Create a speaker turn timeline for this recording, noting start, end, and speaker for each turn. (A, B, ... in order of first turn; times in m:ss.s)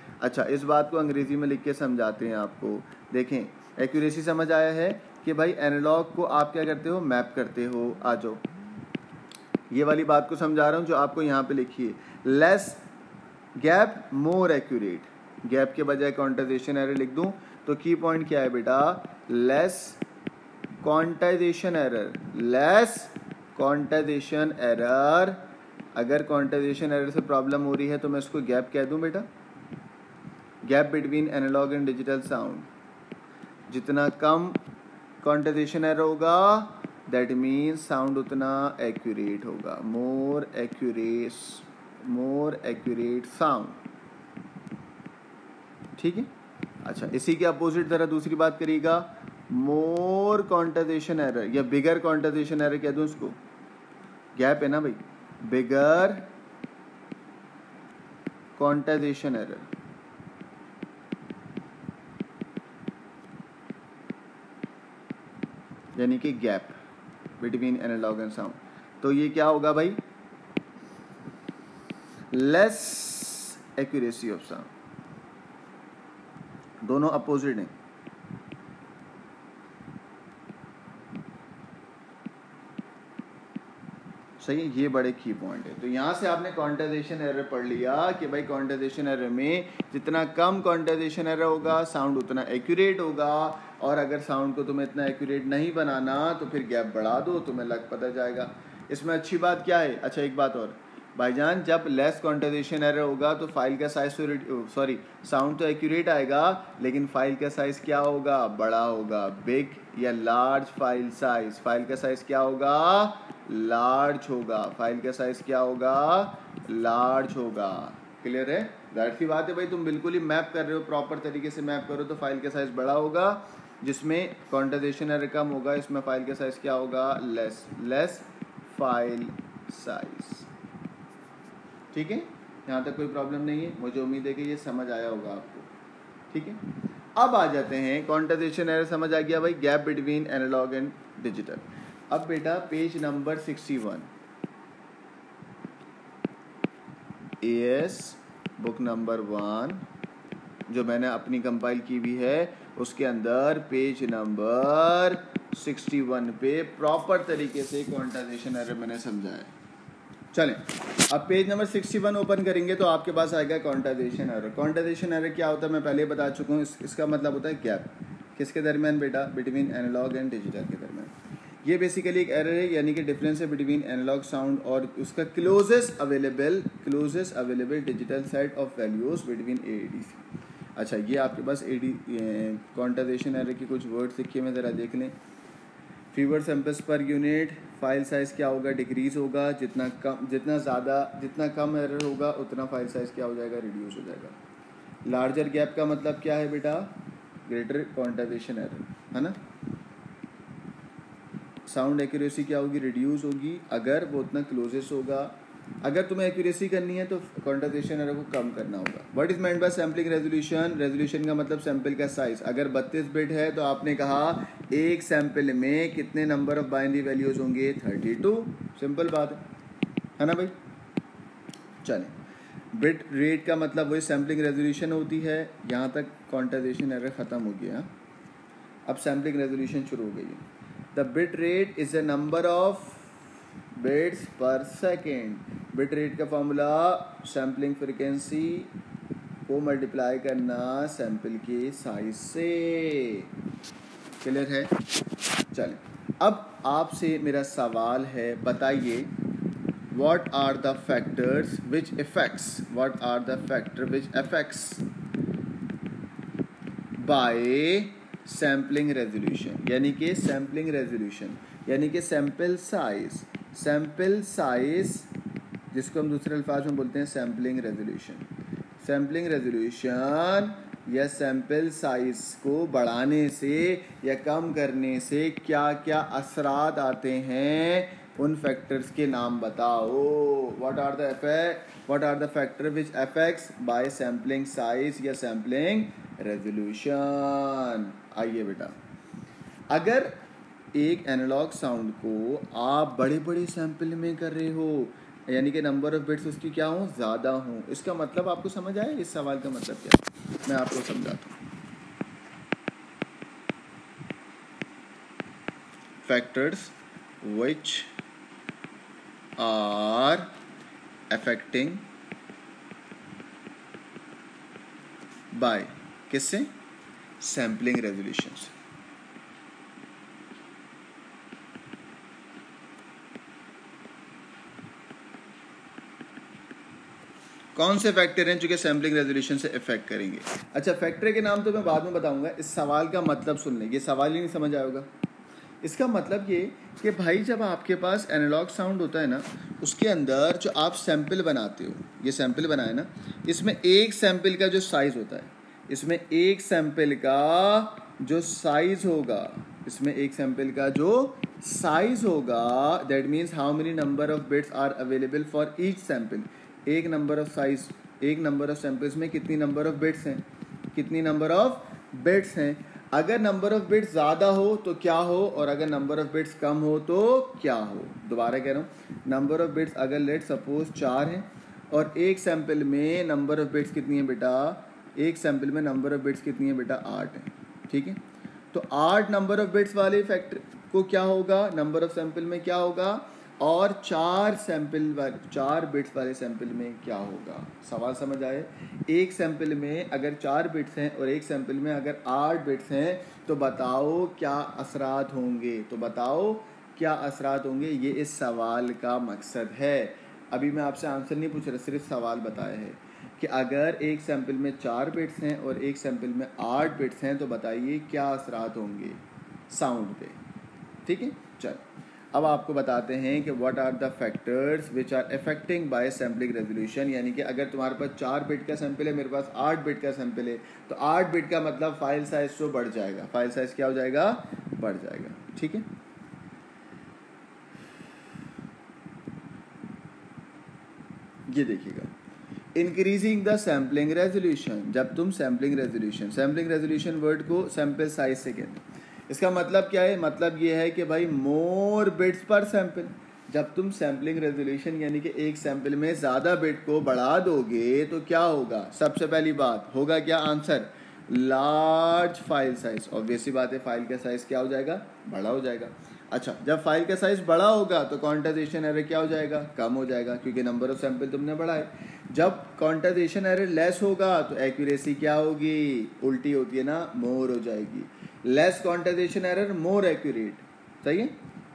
0:00.2-0:08.4 A
0:09.7-0:12.8 A
0:13.6-0:20.0 A
0:20.8-0:25.4 A
0:26.0-0:29.3 A
0:30.6-0:32.7 A
0:33.7-0:34.6 A
0:35.2-0:43.8 A
0:46.0-0:46.3 A
0:46.8-0:53.4 A
0:54.4-0:56.3 A
0:58.6-0:59.7 A
1:06.0-1:06.8 A
1:07.4-1:10.0 A
1:12.3-1:14.7 A
1:16.8-1:17.7 A
1:24.4-2:10.5 A
2:11.9-2:15.7 A
2:16.3-2:16.6 A
2:17.2-2:24.1 A
2:27.4-2:29.8 A
2:30.7-2:39.5 A
2:40.3-3:00.2 A
3:00.8-3:05.2 A
3:06.1-3:14.4 A
3:15.1-3:16.9 A
3:17.5-3:19.4 A
3:21.7-3:39.4 A
3:40.2-3:40.5 A
3:41.8-3:42.1 A
3:42.7-3:47.9 A
3:48.9-3:50.4 A
3:50.9-3:53.1 A
3:53.8-3:58.7 A
3:59.5-4:03.3 A
4:04.2-4:04.7 A
4:05.5-4:09.1 A
4:09.9-4:14.8 A
4:17.0-4:25.1 A
4:25.7-4:28.3 A
4:28.8-4:48.8 A
4:49.7-4:50.2 A
4:50.7-5:01.4 A
5:06.0-5:07.9 A
5:09.4-5:10.3 A
5:11.1-5:11.9 A
5:15.3-5:16.5 A
5:17.2-5:18.5 A
5:27.6-5:34.9 A
5:35.6-6:18.0 A
6:18.5-6:50.2 A
6:50.9-7:05.7 A
7:11.3-7:11.9 A
7:12.6-7:51.2 A